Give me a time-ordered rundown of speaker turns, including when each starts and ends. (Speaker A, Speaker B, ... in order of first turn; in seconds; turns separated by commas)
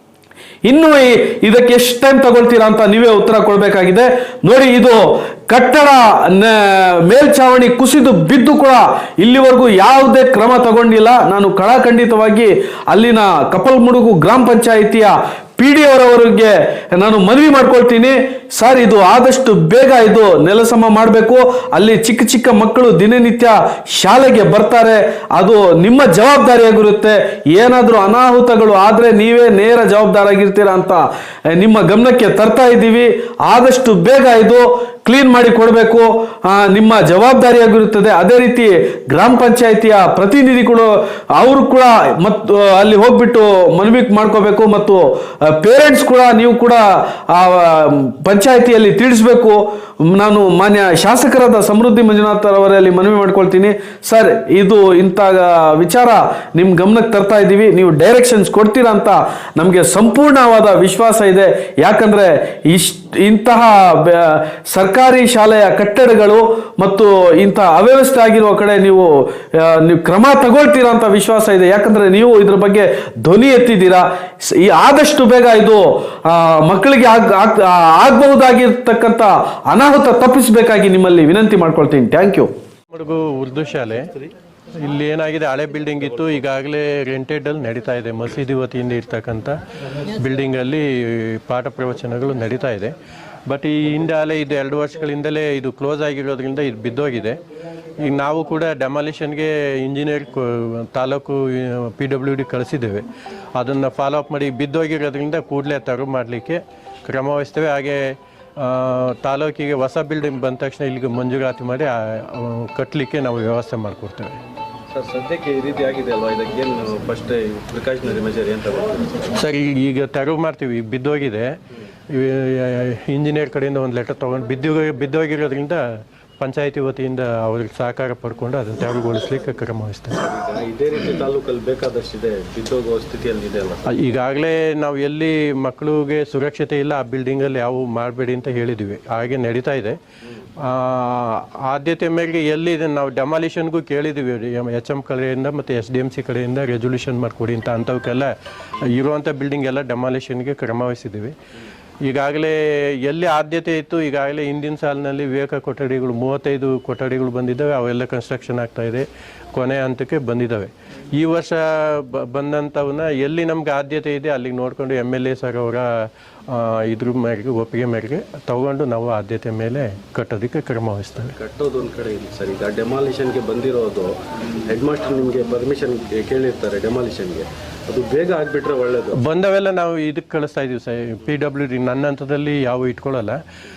Speaker A: 0.7-82.5, Speaker B: 82.9-84.3, Speaker B: 84.8-89.6, Speaker B: 90.2-92.9, Speaker B: 93.5-97.4, Speaker B: 98.0-103.0, Speaker B: 103.6-114.4, Speaker C: 114.9-119.3, Speaker B: 119.4-121.6, Speaker B: 122.1-125.8, Speaker B: 126.4-130.2, Speaker C: 130.2-133.9, Speaker B: 133.9-140.0, Speaker B: 140.6-148.3, Speaker B: 148.8-151.3, Speaker B: 152.0-165.9, Speaker B: 166.5-171.3, Speaker C: 171.4-174.2, Speaker C: 174.7-179.2, Speaker B: 179.1-183.4